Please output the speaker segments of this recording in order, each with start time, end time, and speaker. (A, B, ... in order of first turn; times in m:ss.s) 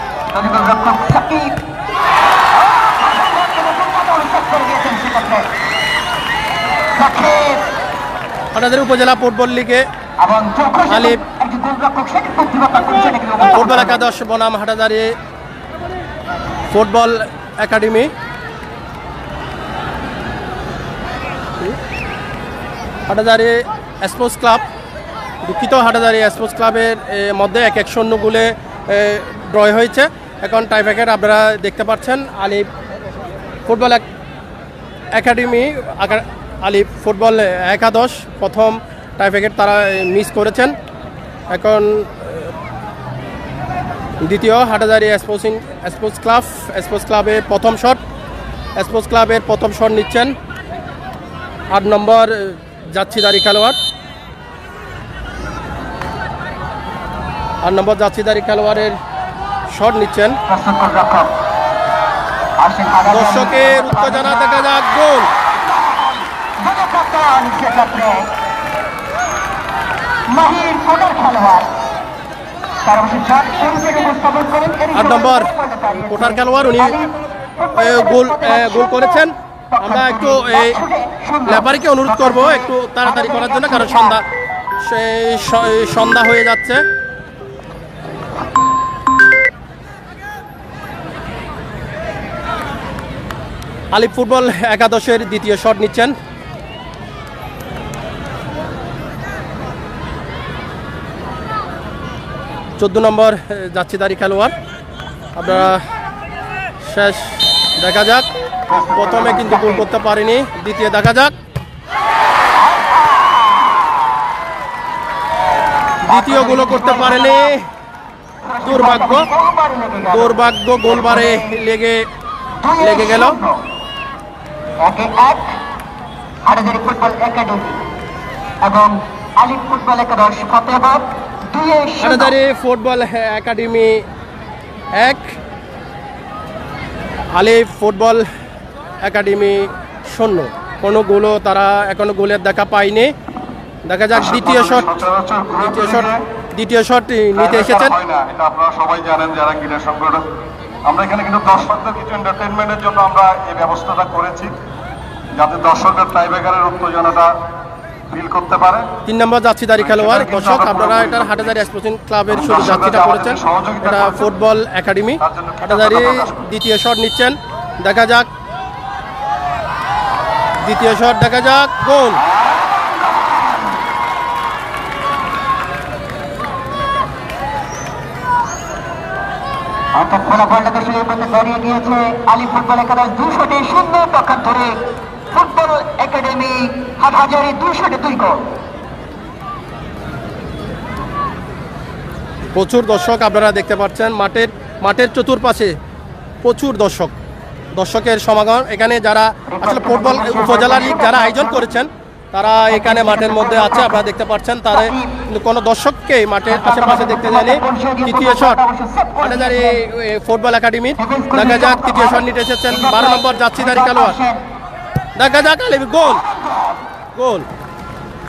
0:00.3-0:01.6 A
0:02.6-0:05.5 A
0:06.9-0:07.8 A
0:08.5-0:09.8 B
0:10.2-0:14.1 A
0:10.9-0:11.2 B
0:13.5-0:15.1 B
0:16.7-0:18.1 B
0:23.1-0:24.6 B
0:25.4-0:32.7 B
0:33.6-0:34.0 B
0:35.1-0:40.7 B
0:41.5-0:42.5 B
0:44.2-0:48.0 B
0:48.8-0:50.3 B
0:51.7-0:53.8 B
0:57.6-0:59.0 B
0:59.7-1:00.4 B
1:00.5-1:01.3 A
1:02.6-1:04.6 A
1:03.1-1:05.3 B
1:05.5-1:08.3 A
1:10.3-1:11.7 A
1:12.8-1:24.2 A
1:14.9-1:15.5 B
1:16.1-1:17.0 B
1:17.8-1:20.8 B
1:21.4-1:24.2 B
1:24.8-1:26.8 B
1:33.9-1:36.1 B
1:42.8-1:44.5 B
1:45.4-1:45.8 B
1:46.8-1:48.2 B
1:48.7-1:49.9 A
1:49.0-1:51.3 B
1:52.5-1:54.1 A
1:56.0-1:57.5 A
1:56.1-1:57.7 B
1:58.4-2:01.6 A
1:58.6-1:59.3 B
2:00.1-2:02.0 B
2:02.6-2:03.6 A
2:02.8-2:03.4 B
2:04.8-2:05.6 A
2:06.4-2:07.8 A
2:08.6-2:12.3 A
2:12.0-2:14.0 B
2:14.9-2:15.3 B
2:17.3-2:18.2 B
2:19.0-2:23.1 B
2:23.9-2:24.9 B
2:24.1-2:26.2 C
2:25.6-2:28.0 B
2:27.3-2:30.2 C
2:30.8-2:34.6 C
2:35.4-2:37.3 C
2:38.1-2:38.9 C
2:39.0-2:48.3 B
2:39.8-2:41.6 C
2:42.3-2:44.3 C
2:45.2-2:46.5 C
2:50.6-2:52.2 B
2:52.3-2:53.7 A
2:59.9-3:08.5 A
3:12.5-3:15.7 B
3:16.4-3:17.1 B
3:17.8-3:28.6 B
3:19.5-3:21.7 A
3:22.6-3:24.0 A
3:24.7-3:25.2 A
3:26.5-3:29.8 A
3:29.2-3:34.2 B
3:31.0-3:34.4 A
3:35.2-3:36.2 B
3:36.1-3:36.8 A
3:37.1-3:37.4 B